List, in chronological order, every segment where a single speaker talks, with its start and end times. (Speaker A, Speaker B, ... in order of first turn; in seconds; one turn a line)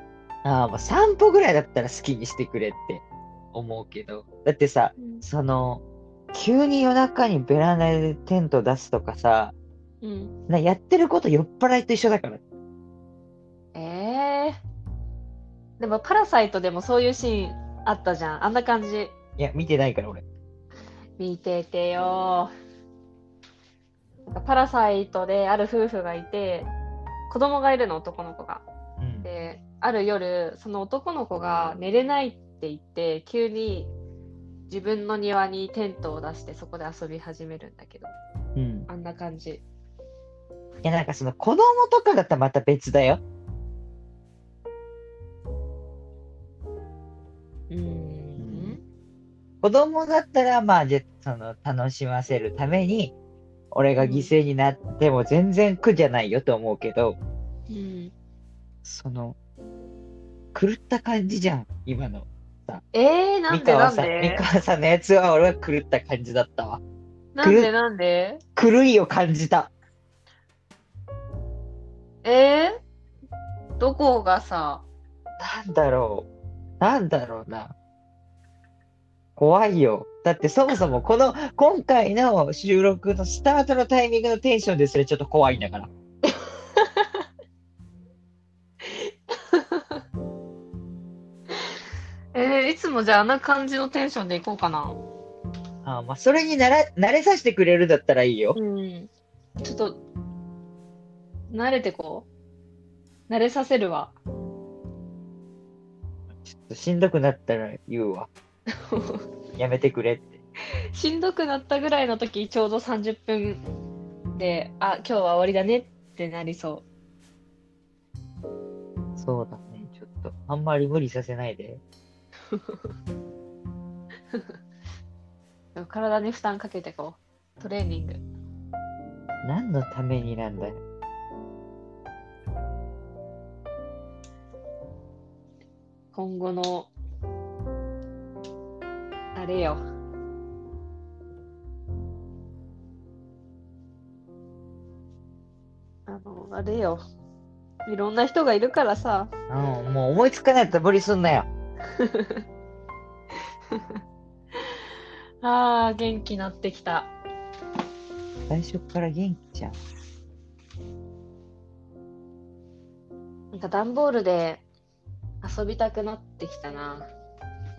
Speaker A: 0.4-9.6
Speaker B: 5.0-5.2
Speaker B: 10.0-10.3
Speaker A: 10.5-12.4
Speaker B: 13.7-14.6
Speaker B: 15.8-19.1
Speaker A: 19.4-20.2
Speaker B: 21.2-22.5
Speaker B: 24.3-26.7
Speaker B: 27.3-28.7
Speaker A: 29.0-29.3
Speaker B: 29.2-33.9
Speaker B: 34.7-38.1
Speaker A: 38.6-38.9
Speaker B: 38.9-39.6
Speaker A: 40.8-43.2
Speaker B: 47.7-48.8
Speaker A: 48.4-48.8
Speaker A: 49.6-53.1
Speaker A: 53.7-57.2
Speaker B: 54.0-54.3
Speaker B: 57.7-58.1
Speaker A: 58.8-59.4
Speaker A: 60.5-62.8
Speaker B: 62.9-64.5
Speaker A: 63.5-66.8
Speaker B: 67.3-68.4
Speaker A: 67.4-67.7
Speaker A: 68.6-69.7
Speaker B: 72.2-72.8
Speaker B: 73.8-74.8
Speaker A: 75.4-76.3
Speaker A: 76.8-77.7
Speaker A: 79.4-85.9
Speaker B: 86.8-87.2
Speaker B: 88.8-90.0
Speaker B: 92.3-95.0
Speaker A: 95.8-98.6
Speaker B: 98.5-100.0
Speaker B: 101.5-102.3
Speaker B: 103.3-104.2
Speaker A: 106.4-108.3
Speaker B: 108.9-109.3
Speaker A: 109.5-110.4
Speaker B: 110.9-113.6
Speaker B: 114.3-116.8
Speaker A: 119.2-121.8
Speaker B: 122.5-122.8
Speaker B: 125.8-128.2
Speaker A: 129.4-130.8
Speaker B: 136.1-136.9
Speaker B: 139.3-139.8
Speaker B: 146.1-147.0
Speaker B: 147.9-149.3
Speaker A: 149.5-151.5
Speaker B: 152.0-152.4
Speaker B: 155.4-157.1
Speaker A: 158.5-159.8
Speaker B: 163.5-164.6
Speaker B: 165.4-167.1